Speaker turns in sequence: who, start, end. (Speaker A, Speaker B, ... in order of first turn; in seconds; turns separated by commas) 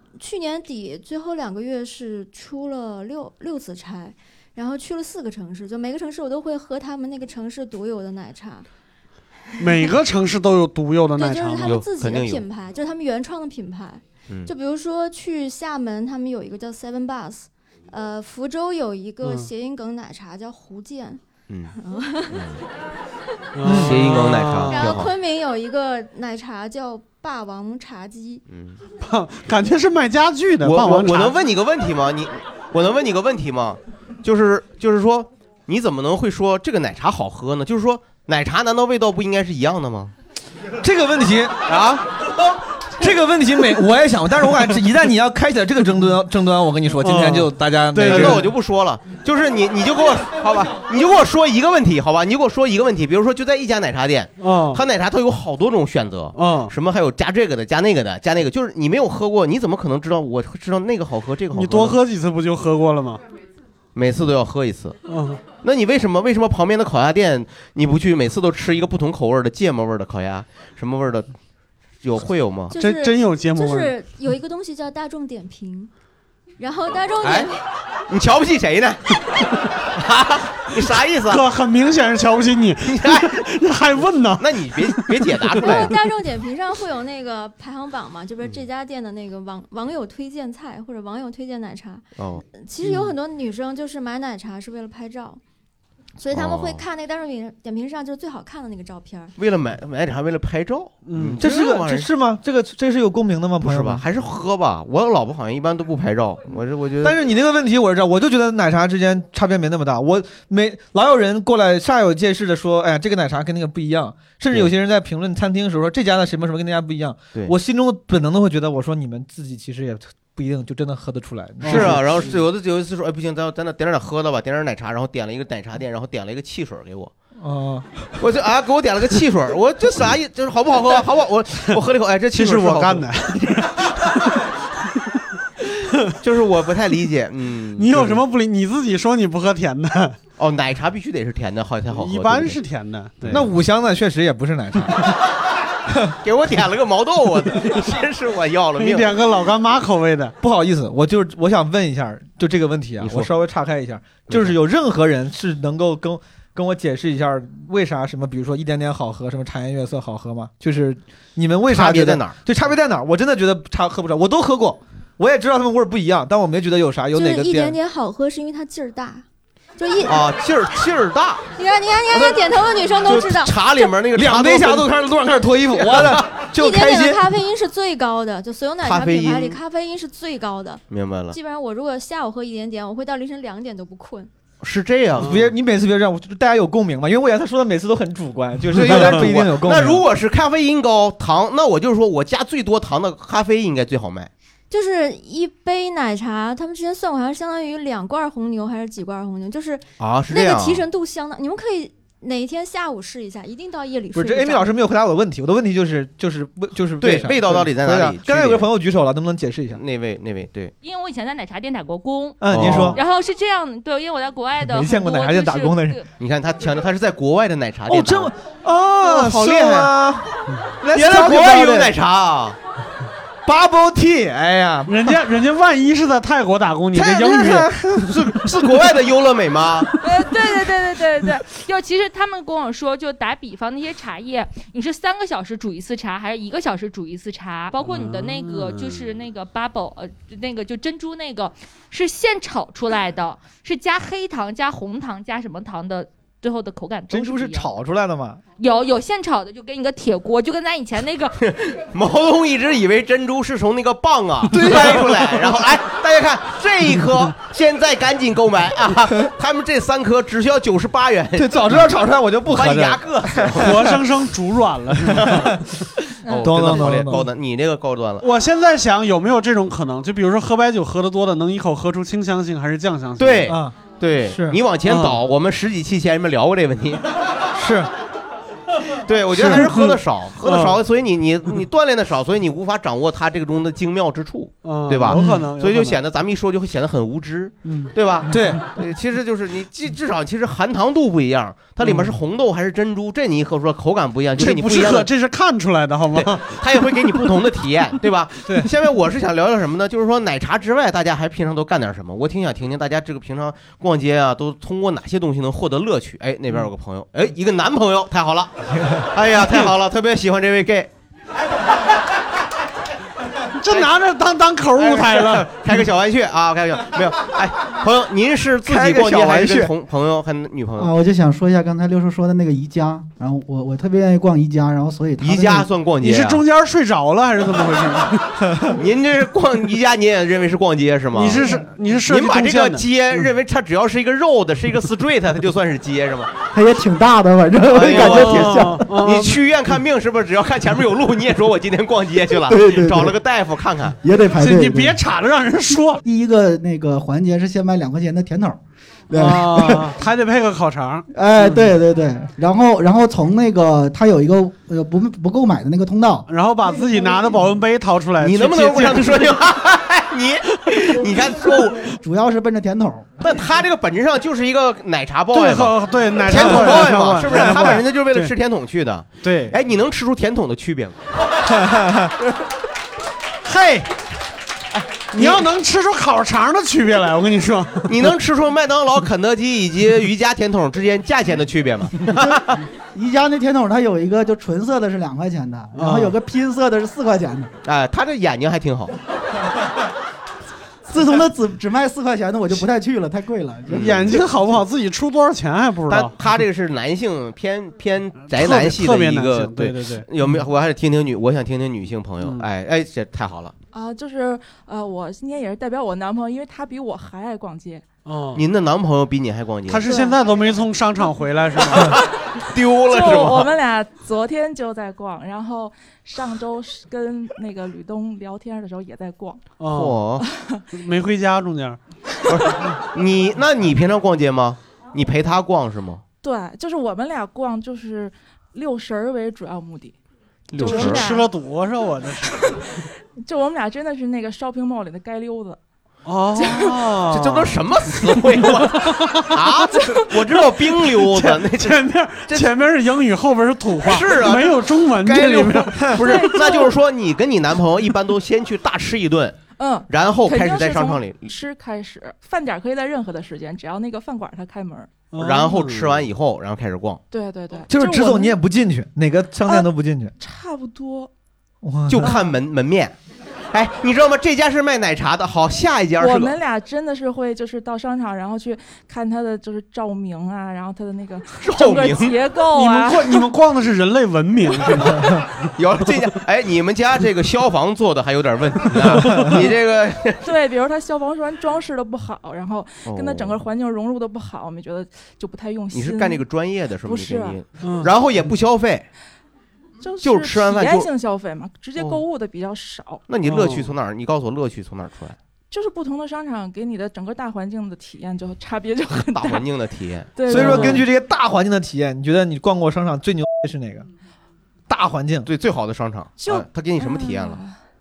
Speaker A: 0.2-8.7, Speaker B: 9.6-11.8, Speaker A: 11.2-22.6, Speaker C: 11.6-12.4, Speaker B: 19.2-19.5, Speaker C: 21.5-21.7, Speaker C: 22.3-22.6, Speaker B: 23.6-24.9, Speaker C: 23.6-25.1, Speaker D: 23.7-23.9, Speaker A: 24.7-28.4, Speaker C: 28.5-28.8, Speaker B: 29.0-31.4, Speaker C: 30.6-40.1, Speaker D: 40.8-41.6, Speaker C: 41.6-42.0, Speaker D: 43.0-48.5, Speaker B: 47.0-48.5, Speaker C: 48.0-62.0, Speaker B: 54.4-54.8, Speaker B: 56.3-56.7, Speaker B: 61.5-63.2, Speaker C: 63.9-65.0, Speaker B: 65.1-65.4, Speaker C: 65.6-71.3, Speaker C: 72.0-72.8, Speaker A: 72.7-75.9, Speaker B: 72.8-73.9, Speaker A: 76.6-77.5, Speaker C: 77.2-77.5, Speaker C: 78.1-79.2, Speaker C: 79.8-81.4, Speaker B: 81.3-85.8, Speaker C: 82.8-83.4, Speaker C: 84.4-86.0, Speaker A: 85.6-95.4, Speaker C: 92.2-92.4, Speaker A: 96.2-99.3, Speaker C: 96.3-96.8, Speaker C: 99.4-102.1, Speaker B: 101.0-101.4, Speaker D: 101.4-104.0, Speaker C: 103.6-107.2, Speaker D: 107.0-122.0, Speaker B: 121.6-122.2, Speaker C: 121.7-127.1, Speaker D: 127.4-128.1, Speaker C: 128.2-133.5, Speaker B: 132.3-134.4, Speaker C: 136.1-138.2, Speaker B: 137.8-140.2, Speaker C: 140.4-142.6, Speaker B: 141.9-143.3, Speaker C: 143.2-143.5, Speaker D: 143.3-145.0, Speaker C: 146.2-149.2, Speaker B: 148.8-150.3, Speaker D: 150.4-167.8, Speaker C: 153.0-153.3, Speaker C: 154.3-154.6, Speaker C: 161.7-162.4, Speaker A: 167.1-169.2, Speaker A: 169.8-170.2, Speaker C: 170.0-171.5, Speaker A: 171.6-174.0, Speaker C: 172.1-174.9, Speaker D: 174.1-177.2, Speaker C: 175.7-176.4, Speaker A: 176.5-184.3, Speaker C: 178.8-179.6, Speaker C: 180.9-181.4, Speaker C: 184.6-185.3, Speaker D: 185.2-190.0, Speaker C: 188.7-194.3, Speaker B: 188.9-189.2, Speaker A: 194.7-204.7, Speaker C: 200.0-200.9, Speaker D: 204.1-209.8, Speaker C: 207.0-208.7, Speaker C: 209.7-210.7, Speaker E: 210.8-216.1, Speaker D: 212.4-213.0, Speaker C: 212.5-213.0, Speaker D: 214.6-216.0, Speaker C: 216.2-218.3, Speaker D: 217.9-221.9, Speaker C: 219.0-219.9, Speaker C: 220.9-222.6, Speaker D: 223.4-225.1, Speaker B: 224.9-227.7, Speaker D: 226.9-228.1, Speaker C: 228.0-229.9, Speaker E: 230.0-247.7, Speaker B: 237.8-239.1, Speaker D: 247.1-248.4, Speaker E: 248.6-251.4, Speaker C: 251.4-261.9, Speaker D: 254.5-255.5, Speaker D: 261.4-263.8, Speaker C: 262.5-263.9, Speaker B: 263.6-265.5, Speaker D: 265.1-265.6, Speaker C: 265.2-265.5, Speaker C: 266.2-268.2, Speaker D: 266.4-267.3, Speaker B: 268.2-273.6, Speaker C: 273.2-277.0, Speaker D: 273.4-273.8, Speaker D: 274.3-274.6, Speaker B: 274.9-275.2, Speaker D: 277.5-277.9, Speaker C: 278.9-295.1, Speaker B: 279.3-280.8, Speaker B: 284.6-286.0, Speaker D: 285.1-285.4, Speaker B: 287.6-288.5, Speaker D: 288.3-288.6, Speaker B: 294.3-297.2, Speaker C: 296.1-310.9, Speaker B: 313.6-315.5, Speaker C: 313.7-313.9, Speaker C: 314.7-320.9, Speaker D: 318.6-319.7, Speaker F: 320.8-325.7, Speaker C: 325.2-326.4, Speaker B: 326.0-328.4, Speaker C: 328.7-336.3, Speaker B: 331.1-332.9, Speaker F: 336.5-338.8, Speaker C: 337.7-344.0, Speaker B: 337.8-339.4, Speaker F: 342.4-343.1, Speaker F: 344.0-345.0, Speaker B: 344.3-346.0, Speaker F: 346.0-348.6, Speaker F: 349.1-349.9, Speaker B: 349.1-351.7, Speaker F: 351.1-356.3, Speaker B: 356.3-359.3, Speaker C: 358.2-361.9, Speaker F: 362.0-363.1, Speaker C: 363.2-371.0, Speaker B: 365.3-368.3, Speaker D: 367.3-367.7, Speaker B: 369.2-369.6, Speaker D: 371.6-372.1, Speaker B: 373.4-373.9, Speaker C: 374.7-375.5, Speaker B: 375.1-378.1, Speaker C: 377.9-382.6, Speaker F: 382.9-387.5, Speaker B: 385.7-386.1, Speaker C: 387.6-388.9, Speaker F: 390.9-393.9, Speaker C: 393.7-394.2, Speaker B: 393.7-396.1, Speaker C: 395.9-403.5, Speaker B: 398.2-400.1, Speaker B: 402.2-402.4, Speaker G: 403.7-407.8, Speaker B: 408.0-408.4, Speaker C: 408.3-409.9, Speaker B: 409.7-412.0, Speaker G: 409.8-410.2, Speaker C: 411.8-413.5, Speaker G: 412.8-419.5, Speaker B: 419.6-420.0, Speaker C: 419.7-420.2, Speaker G: 420.2-420.6, Speaker B: 420.7-421.8, Speaker C: 422.3-426.0, Speaker G: 426.2-429.9, Speaker C: 430.5-431.0, Speaker G: 430.6-431.3, Speaker B: 430.6-432.4, Speaker G: 432.3-435.6, Speaker B: 436.1-439.5, Speaker G: 436.4-436.8, Speaker C: 437.1-442.6, Speaker B: 440.8-446.6, Speaker C: 443.8-451.3, Speaker G: 446.0-446.8, Speaker G: 449.6-455.1, Speaker B: 455.1-456.0, Speaker C: 455.1-457.0, Speaker G: 457.1-458.4, Speaker D: 457.7-460.1, Speaker G: 459.4-461.1, Speaker D: 461.6-462.1, Speaker C: 461.9-462.9, Speaker C: 463.5-466.4, Speaker G: 466.0-473.2, Speaker C: 471.4-472.2, Speaker B: 472.5-475.5, Speaker C: 475.6-480.3, Speaker B: 478.8-479.4, Speaker G: 480.2-486.2, Speaker C: 482.9-483.4, Speaker C: 485.7-488.9, Speaker G: 486.8-487.4, Speaker B: 487.6-487.9, Speaker G: 489.8-493.1, Speaker C: 490.0-490.9, Speaker C: 493.1-495.2, Speaker B: 493.2-493.7, Speaker G: 495.5-499.4, Speaker C: 499.1-500.8, Speaker G: 500.1-500.9, Speaker D: 500.3-503.9, Speaker B: 500.4-500.8, Speaker D: 504.7-505.3, Speaker C: 505.2-507.4, Speaker G: 506.2-507.6